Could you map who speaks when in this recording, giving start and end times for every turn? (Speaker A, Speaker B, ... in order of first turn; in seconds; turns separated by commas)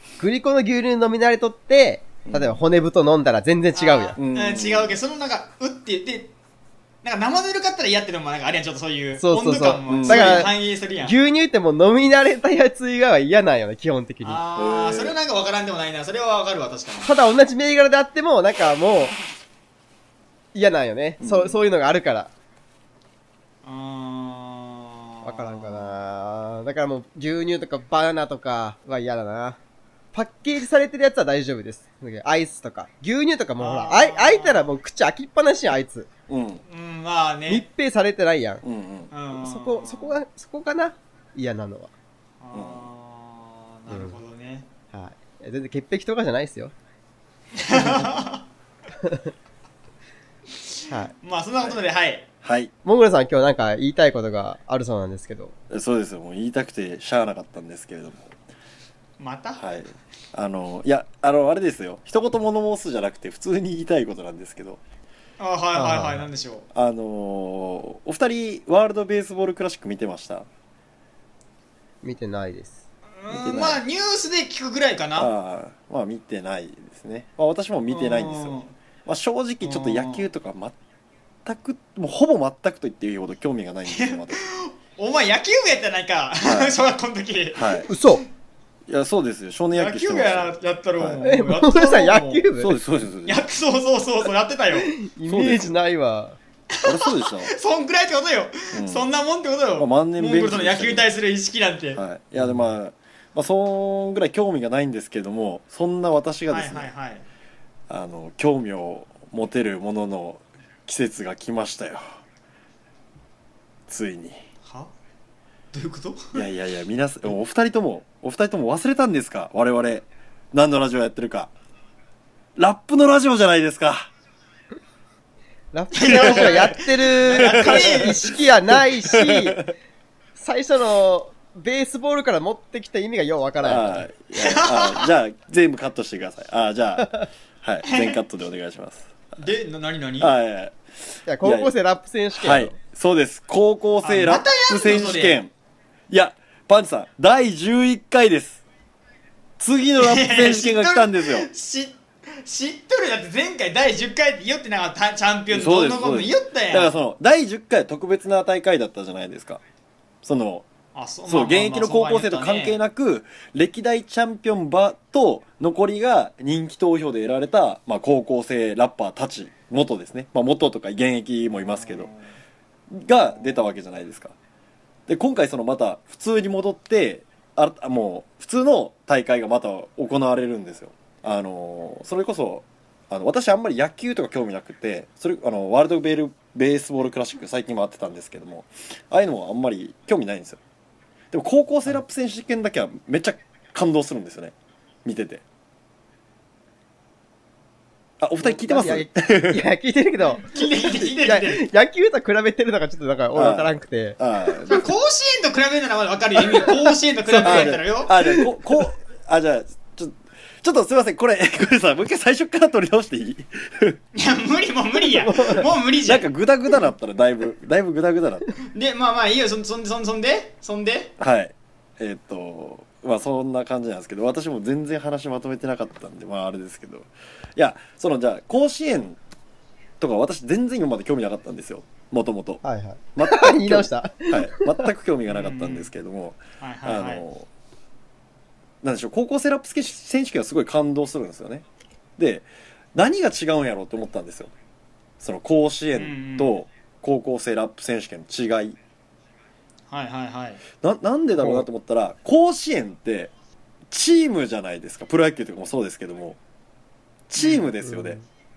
Speaker A: 0.2-4.2, Speaker B: 2.2-2.6, Speaker C: 3.8-6.3, Speaker B: 4.2-5.0, Speaker C: 7.0-11.2, Speaker A: 9.2-14.4, Speaker B: 9.9-10.5, Speaker C: 14.2-17.2, Speaker B: 14.6-15.2, Speaker A: 17.0-19.1, Speaker A: 20.5-22.3, Speaker B: 21.2-21.6, Speaker C: 23.6-26.0, Speaker A: 25.2-29.6, Speaker A: 30.1-36.1, Speaker C: 33.6-34.7, Speaker B: 36.3-36.6, Speaker C: 36.7-37.7, Speaker A: 37.5-38.6, Speaker B: 38.6-39.1, Speaker C: 39.1-40.2, Speaker A: 39.3-41.9, Speaker C: 42.4-44.7, Speaker B: 42.5-42.9, Speaker A: 43.9-44.2, Speaker A: 44.9-46.7, Speaker C: 47.7-48.5, Speaker B: 47.8-48.0, Speaker A: 49.0-49.3, Speaker C: 51.2-52.3, Speaker B: 52.4-52.7, Speaker A: 52.8-55.5, Speaker B: 55.7-58.3, Speaker C: 59.2-59.6, Speaker B: 59.6-64.8, Speaker C: 65.4-66.7, Speaker A: 65.7-66.3, Speaker B: 66.7-70.5, Speaker A: 72.0-72.8, Speaker C: 73.2-75.3, Speaker B: 73.3-73.8, Speaker B: 75.2-80.8, Speaker C: 77.9-78.7, Speaker C: 79.6-80.3, Speaker B: 81.5-84.5, Speaker C: 83.9-87.8, Speaker B: 86.4-86.8, Speaker B: 87.5-87.9, Speaker A: 87.9-88.2, Speaker B: 88.9-91.2, Speaker C: 89.7-92.5, Speaker A: 91.2-92.8, Speaker B: 92.6-93.5, Speaker C: 93.3-94.9, Speaker A: 94.7-96.4, Speaker B: 95.2-95.8, Speaker C: 96.8-102.0, Speaker B: 96.8-97.5, Speaker B: 98.7-99.1, Speaker B: 99.8-101.1, Speaker B: 101.9-106.9, Speaker A: 102.4-102.7, Speaker C: 106.5-107.2, Speaker B: 107.9-112.0, Speaker B: 113.9-114.4, Speaker C: 114.7-114.9, Speaker C: 115.7-116.4, Speaker B: 116.3-121.5, Speaker B: 122.6-124.1, Speaker A: 125.7-129.6, Speaker C: 125.9-128.3, Speaker B: 126.1-126.6, Speaker B: 127.4-128.2, Speaker B: 128.7-129.7, Speaker A: 130.4-134.1, Speaker B: 133.6-139.5, Speaker C: 134.4-135.1, Speaker C: 137.9-138.2, Speaker C: 139.4-140.3, Speaker B: 140.2-140.8, Speaker A: 141.3-142.8, Speaker B: 141.4-141.7, Speaker B: 142.3-145.5, Speaker C: 144.0-145.4, Speaker B: 146.1-148.6, Speaker B: 149.6-151.5, Speaker C: 150.0-156.9, Speaker B: 155.5-159.6, Speaker B: 160.2-160.7, Speaker C: 160.9-162.8, Speaker B: 161.3-172.1, Speaker C: 171.5-172.3, Speaker B: 172.9-174.3, Speaker B: 175.1-190.6, Speaker B: 191.3-194.5, Speaker B: 195.1-195.4, Speaker B: 198.2-199.7, Speaker A: 198.4-204.9, Speaker C: 200.4-201.7, Speaker B: 203.3-204.9, Speaker C: 204.7-208.1, Speaker A: 206.5-208.4, Speaker B: 207.4-214.0, Speaker C: 214.2-216.3, Speaker A: 215.1-215.7, Speaker B: 216.1-218.5, Speaker C: 218.7-221.1, Speaker B: 221.2-229.2, Speaker B: 230.0-232.6, Speaker A: 232.6-234.9, Speaker B: 233.2-237.5, Speaker C: 235.3-235.9, Speaker C: 236.6-237.2, Speaker B: 238.8-241.7, Speaker B: 242.2-244.5, Speaker B: 245.2-248.8, Speaker C: 245.9-246.6, Speaker C: 249.9-250.6, Speaker B: 250.8-253.3, Speaker A: 251.4-251.7, Speaker B: 253.9-256.4, Speaker B: 257.3-258.2, Speaker C: 257.4-257.7, Speaker A: 257.8-258.2